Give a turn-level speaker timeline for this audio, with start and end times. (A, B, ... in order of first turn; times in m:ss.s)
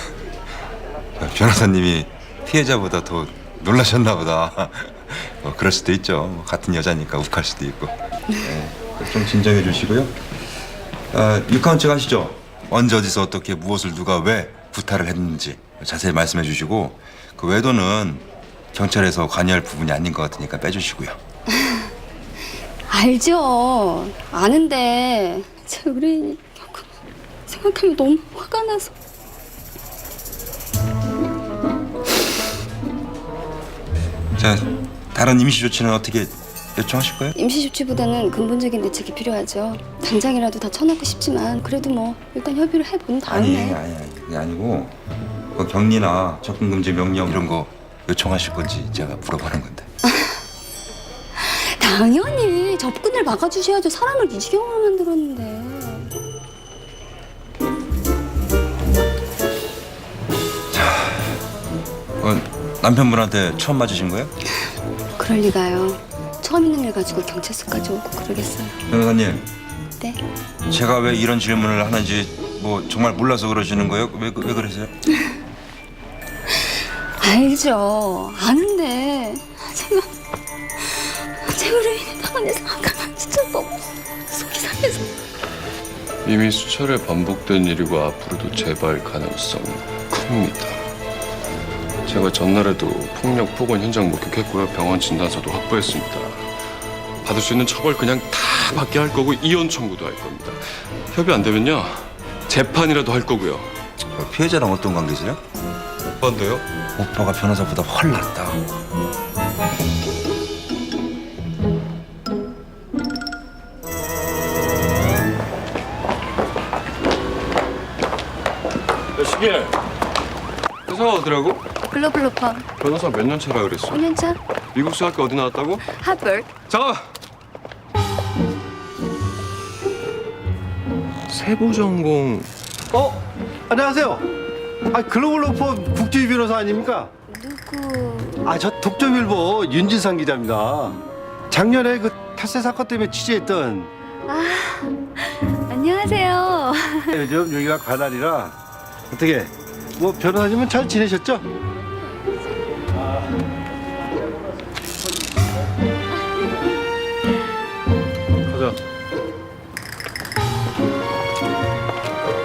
0:01.2-0:10.1 A
0:11.1-0:21.2 A
0:22.9-0:26.9 B
0:27.5-0:28.9 B
0:34.4-0:37.3 A
0:37.3-0:43.8 B
0:43.2-0:44.9 A
0:45.5-0:49.9 A
0:51.4-0:56.1 B
1:00.7-1:01.3 A
1:02.2-1:04.3 A
1:05.2-1:08.8 B
1:08.9-1:09.5 A
1:10.7-1:14.9 A
1:17.2-1:20.1 B
1:21.4-1:25.1 B
1:26.2-1:30.8 C
1:32.0-1:36.4 C
1:37.2-1:43.7 C
1:44.1-1:45.4 A
1:46.2-1:46.6 C
1:47.0-1:48.6 A
1:59.2-1:59.7 C
2:00.9-2:01.6 C
2:01.9-2:02.6 B
2:02.8-2:04.0 C
2:03.9-2:04.4 B
2:04.7-2:05.8 C
2:05.9-2:06.5 B
2:06.7-2:07.1 C
2:11.3-2:12.5 C
2:12.9-2:14.2 D
2:14.9-2:17.1 D
2:17.3-2:18.5 B
2:18.4-2:21.0 D
2:21.5-2:23.9 D
2:24.3-2:27.2 B
2:27.1-2:28.5 D
2:29.1-2:31.4 D
2:38.5-2:38.8 C